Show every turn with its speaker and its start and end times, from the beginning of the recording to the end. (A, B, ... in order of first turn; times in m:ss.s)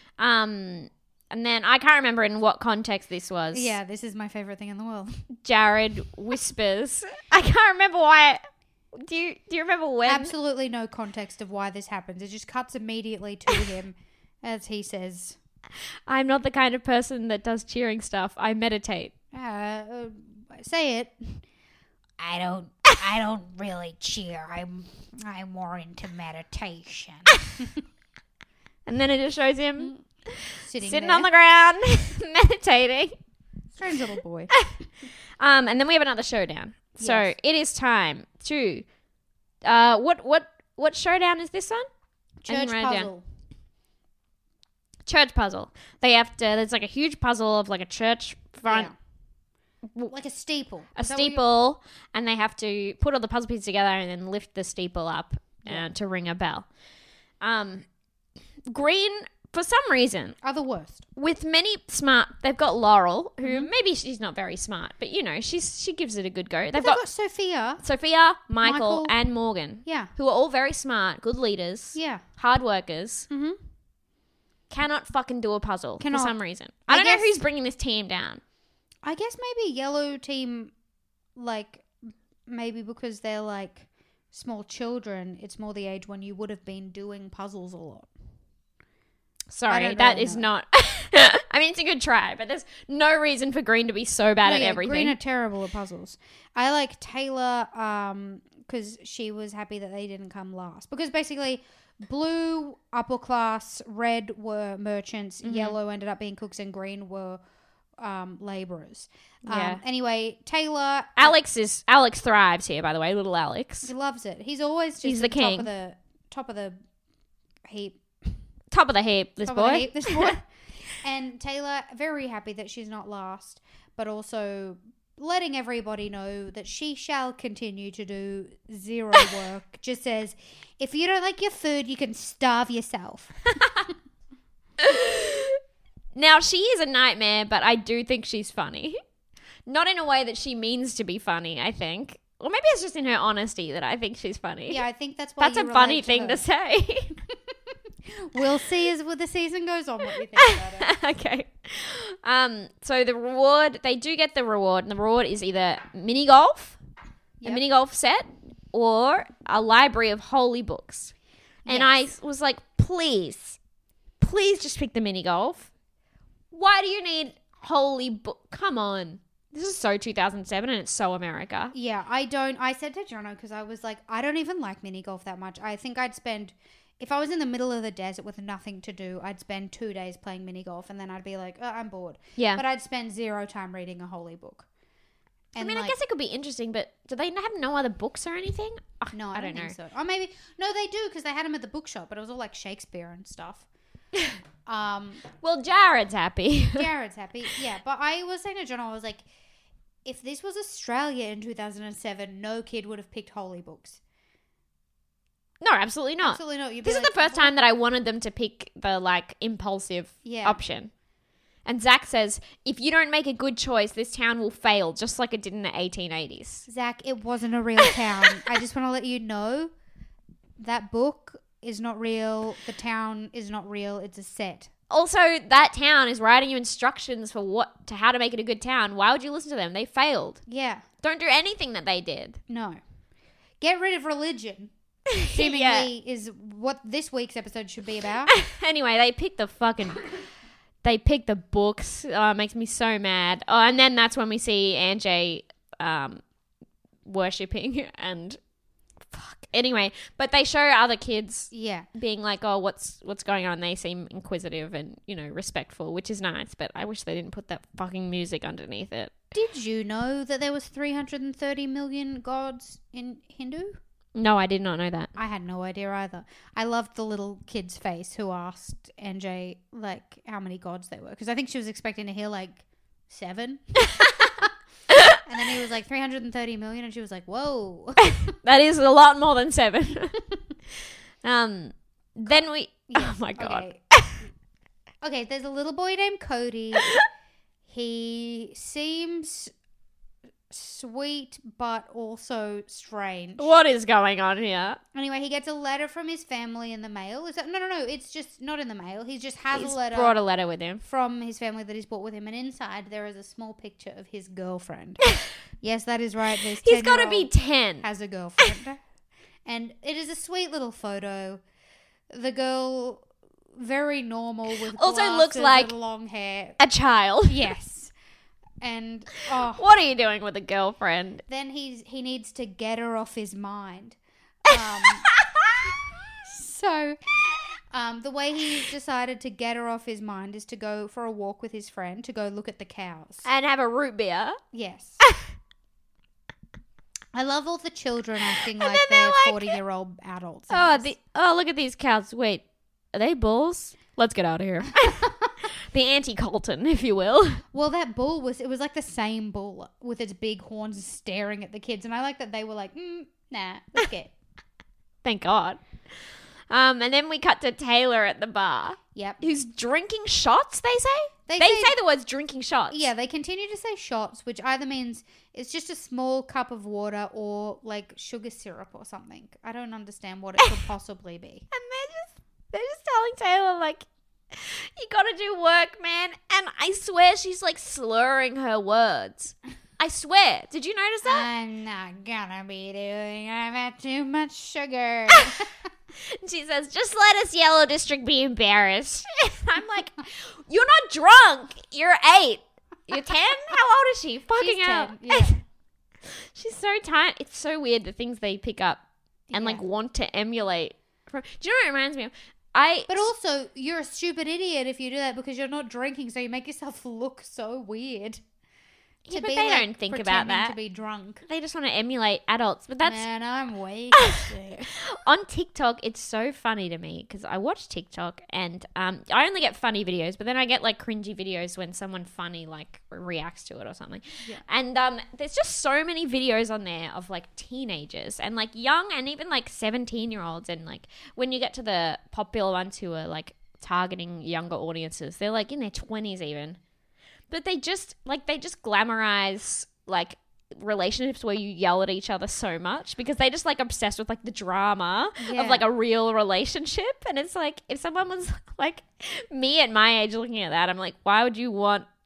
0:00.2-0:03.8 A
0:03.5-0:05.2 B
0:05.4-0:08.4 A
0:08.9-0:10.3 A
0:10.1-0:15.4 B
0:16.1-0:19.1 A
0:19.3-0:21.4 B
0:22.2-0:27.8 B
0:28.9-0:33.2 A
0:30.6-0:31.3 B
0:33.7-0:34.6 B
0:35.4-0:38.8 A
0:37.0-0:37.3 B
0:39.6-0:41.9 A
0:42.4-0:43.2 B
0:42.5-0:43.1 A
0:45.1-0:48.9 A
0:48.6-0:49.0 B
0:50.1-0:51.4 B
0:51.0-0:56.7 A
0:55.6-0:55.9 B
0:57.4-0:57.8 A
0:58.7-1:00.4 A
1:00.4-1:01.1 B
1:01.2-1:07.0 A
1:03.4-1:03.7 B
1:06.7-1:07.8 B
1:07.8-1:13.3 A
1:08.6-1:09.2 B
1:09.8-1:10.1 B
1:12.0-1:12.2 B
1:13.3-1:13.6 B
1:14.7-1:18.4 A
1:16.0-1:16.4 B
1:16.9-1:17.4 B
1:19.0-1:20.7 B
1:21.4-1:28.1 B
1:29.5-1:35.2 A
1:29.7-1:30.5 B
1:34.4-1:47.4 B
1:45.4-1:45.8 A
1:48.0-1:51.4 B
1:49.5-1:49.8 A
1:51.2-1:53.9 A
1:53.8-1:56.8 B
1:55.0-1:55.7 A
1:57.7-1:58.4 B
1:58.7-2:00.4 A
1:59.4-2:00.5 B
2:01.0-2:13.5 B
2:13.6-2:13.9 A
2:14.8-2:15.6 A
2:16.2-2:19.0 A
2:19.7-2:24.8 A
2:24.7-2:26.4 B
2:25.4-2:27.2 A
2:28.1-2:30.9 B
2:30.4-2:36.8 A
2:37.4-2:41.1 A
2:41.6-2:42.1 B
2:41.7-2:43.6 A
2:44.2-2:45.7 A
2:46.5-2:51.7 A
2:51.7-3:04.7 B
3:02.4-3:02.6 A
3:05.5-3:06.0 B
3:05.6-3:09.8 A
3:09.1-3:13.7 B
3:14.7-3:15.2 B
3:15.4-3:16.9 A
3:16.8-3:19.3 B
3:20.0-3:24.0 B
3:25.6-3:30.9 A
3:26.2-3:27.5 B
3:30.2-3:30.6 B
3:31.7-3:36.7 A
3:36.7-3:39.7 B
3:40.6-3:44.7 B
3:44.9-3:50.4 A
3:50.5-3:50.8 B
3:51.0-3:52.4 A
3:52.5-3:52.8 B
3:53.6-3:54.7 B
3:55.1-3:55.9 A
3:55.3-3:58.3 B
3:58.3-4:00.1 A
4:00.8-4:06.2 A
4:07.0-4:08.4 A
4:09.1-4:19.1 A
4:11.5-4:11.9 B
4:19.3-4:23.8 B
4:24.2-4:25.1 A
4:25.2-4:33.9 B
4:33.9-4:34.2 A
4:34.9-4:35.2 A
4:35.2-4:38.3 B
4:38.0-4:40.2 A
4:41.2-4:44.2 A
4:42.9-4:44.3 B
4:45.0-4:47.0 B
4:47.6-4:49.5 B
4:50.5-4:53.5 B
4:53.4-4:54.8 A
4:54.9-5:00.2 B
4:59.5-5:00.8 A
5:00.8-5:05.0 B
5:05.6-5:08.8 B
5:06.6-5:07.9 A
5:09.5-5:11.4 B
5:12.1-5:16.6 B
5:14.7-5:15.7 A
5:16.6-5:17.5 A
5:17.3-5:17.9 B
5:18.6-5:19.6 B
5:19.4-5:21.2 A
5:21.3-5:25.1 B
5:24.5-5:25.6 A
5:25.6-5:33.3 B
5:33.2-5:34.4 A
5:34.5-5:35.0 B
5:37.1-5:40.9 B
5:38.6-5:39.6 A
5:40.5-5:45.1 A
5:45.7-5:47.4 A
5:47.5-5:54.1 B
5:55.0-5:55.6 A
5:56.5-6:02.8 A
5:59.0-5:59.2 B
6:01.3-6:01.8 B
6:02.7-6:11.5 B
6:11.5-6:21.3 A
6:21.0-6:25.5 B
6:25.1-6:25.4 A
6:26.2-6:35.4 A
6:34.4-6:35.4 B
6:36.1-6:43.1 A
6:39.3-6:39.6 B
6:42.9-6:48.2 B
6:49.1-6:50.6 A
6:49.1-6:51.2 B
6:51.3-6:53.1 A
6:52.8-6:54.7 B
6:53.9-7:16.6 A
7:17.3-7:31.9 A
7:25.2-7:25.7 B